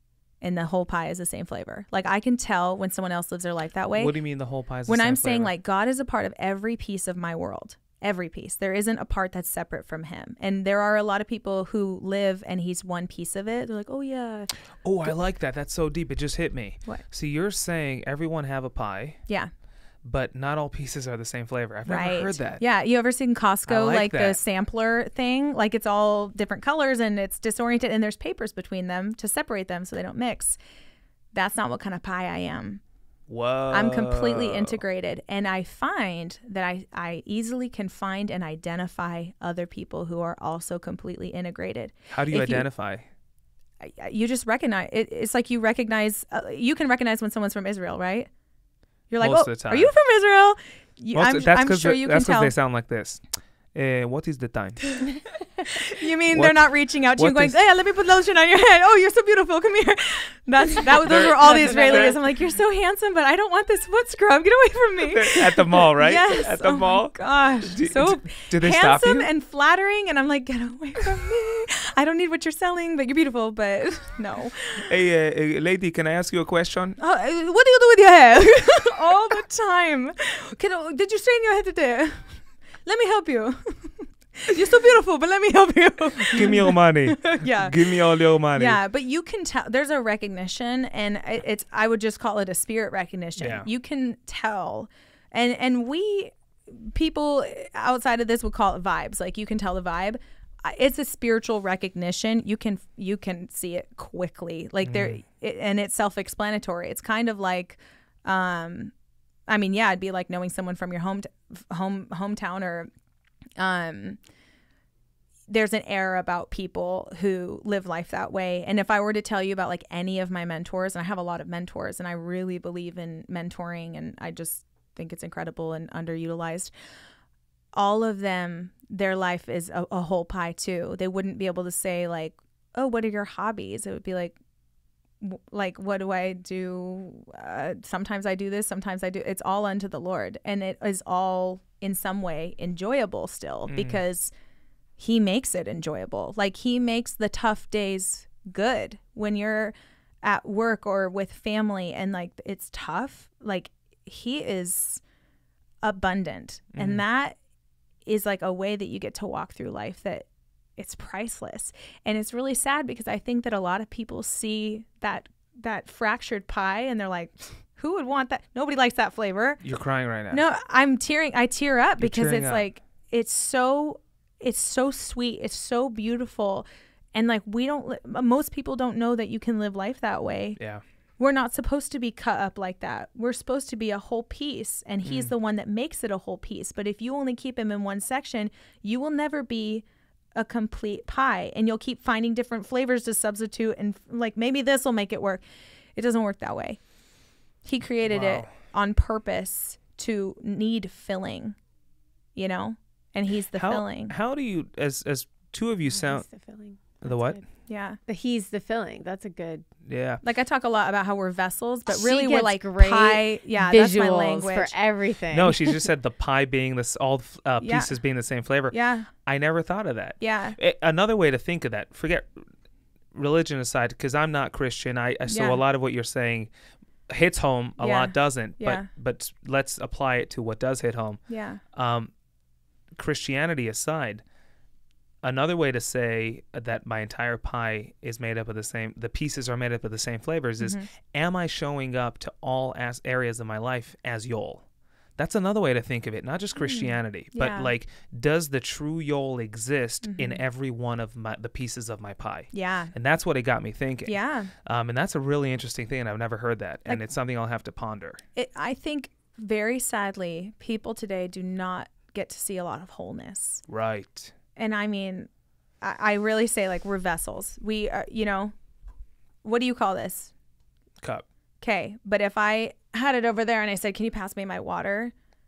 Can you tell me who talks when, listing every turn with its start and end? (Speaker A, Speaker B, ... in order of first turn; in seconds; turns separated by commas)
Speaker A: 0.4-4.2, Speaker B: 4.0-5.5, Speaker A: 4.9-14.5, Speaker B: 14.8-19.2, Speaker B: 20.0-22.6, Speaker A: 21.9-30.6, Speaker B: 23.7-24.4, Speaker A: 31.3-32.8, Speaker B: 33.3-34.8, Speaker A: 33.7-42.7, Speaker B: 42.1-43.0, Speaker A: 43.8-48.3, Speaker A: 49.1-52.5, Speaker B: 49.2-49.9, Speaker B: 51.1-53.2, Speaker B: 53.7-55.0, Speaker A: 55.6-74.9, Speaker B: 56.3-57.6, Speaker B: 61.0-62.2, Speaker C: 61.6-62.1, Speaker B: 65.1-69.3, Speaker B: 74.9-77.0, Speaker A: 77.0-88.0, Speaker B: 86.3-88.8, Speaker A: 88.5-108.9, Speaker B: 93.4-93.7, Speaker B: 104.8-105.2, Speaker A: 109.5-112.9, Speaker A: 113.6-114.2, Speaker A: 115.5-126.7, Speaker A: 127.8-134.4, Speaker A: 135.2-144.3, Speaker B: 143.7-144.0, Speaker A: 145.0-155.0, Speaker A: 155.8-157.4, Speaker B: 156.7-157.0, Speaker A: 158.1-169.6, Speaker B: 169.6-170.4, Speaker A: 170.3-180.6, Speaker B: 172.0-172.7, Speaker B: 180.6-180.8, Speaker A: 181.2-195.4, Speaker B: 185.0-185.3, Speaker A: 196.0-196.8, Speaker A: 197.6-201.6, Speaker B: 198.0-198.5, Speaker A: 202.3-204.1, Speaker B: 203.5-206.3, Speaker C: 205.9-207.4, Speaker B: 207.0-207.4, Speaker A: 207.7-208.0, Speaker C: 208.1-209.7, Speaker B: 209.9-210.2, Speaker A: 210.2-214.8, Speaker C: 211.9-215.8, Speaker B: 215.3-222.3, Speaker A: 217.6-217.9, Speaker A: 218.7-219.1, Speaker A: 220.2-220.6, Speaker B: 223.1-226.5, Speaker A: 225.3-225.6, Speaker B: 227.1-231.2, Speaker A: 227.8-228.9, Speaker A: 231.3-231.6, Speaker B: 231.7-232.1, Speaker B: 233.0-234.2, Speaker B: 235.2-244.7, Speaker A: 240.6-240.9, Speaker B: 245.2-258.2, Speaker A: 246.6-247.7, Speaker A: 250.0-250.4, Speaker A: 252.5-252.9, Speaker A: 254.1-254.5, Speaker A: 258.4-263.6, Speaker B: 263.7-264.3, Speaker A: 264.6-265.3, Speaker A: 265.8-268.5, Speaker A: 269.4-270.3, Speaker A: 271.6-275.1